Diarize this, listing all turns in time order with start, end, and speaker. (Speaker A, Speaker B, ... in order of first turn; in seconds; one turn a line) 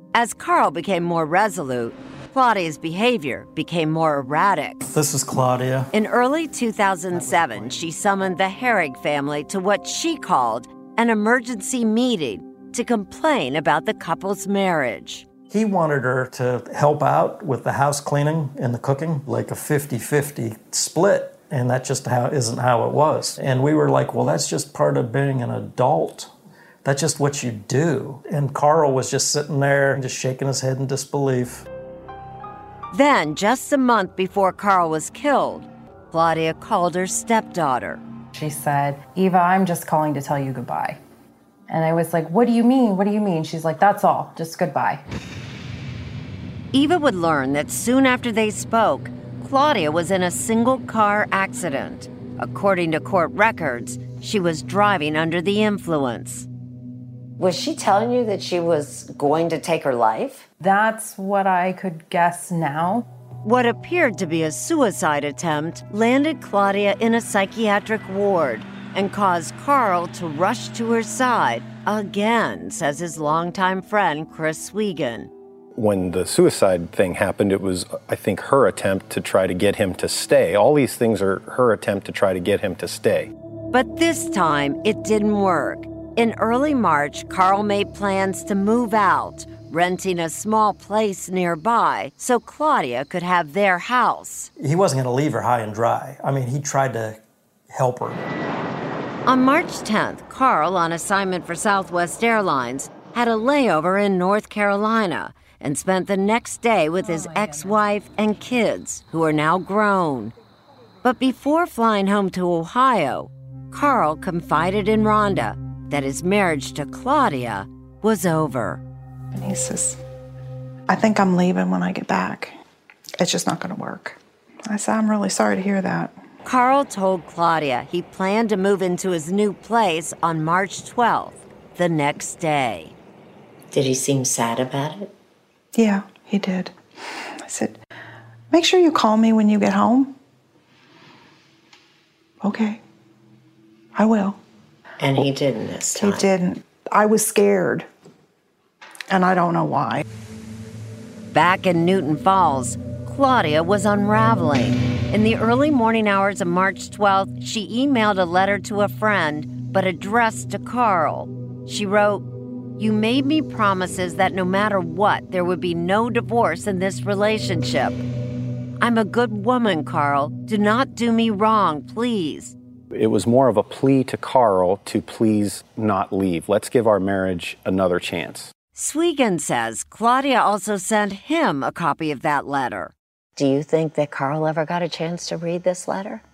Speaker A: 0.1-4.8
Speaker B: 4.8-5.9
Speaker A: 5.9-15.2
Speaker B: 15.5-26.3
Speaker B: 26.8-31.6
Speaker A: 32.9-38.0
Speaker C: 38.3-41.0
Speaker C: 41.7-45.0
Speaker A: 46.7-56.5
Speaker D: 57.4-60.5
Speaker C: 60.6-63.0
Speaker A: 63.4-75.3
Speaker E: 75.7-83.3
Speaker A: 83.7-94.5
Speaker B: 94.6-98.2
Speaker A: 99.2-110.3
Speaker A: 111.0-118.8
Speaker F: 119.3-120.0
Speaker F: 120.9-122.5
Speaker F: 123.2-126.2
Speaker A: 126.4-132.9
Speaker D: 133.7-135.1
Speaker F: 135.7-137.8
Speaker F: 138.5-140.1
Speaker F: 142.4-142.8
Speaker F: 143.9-144.4
Speaker D: 145.0-146.3
Speaker F: 145.9-147.8
Speaker F: 149.1-150.0
Speaker A: 151.3-162.2
Speaker A: 162.8-168.0
Speaker A: 168.8-172.5
Speaker E: 172.9-178.5
Speaker A: 178.7-182.9
Speaker D: 183.3-186.2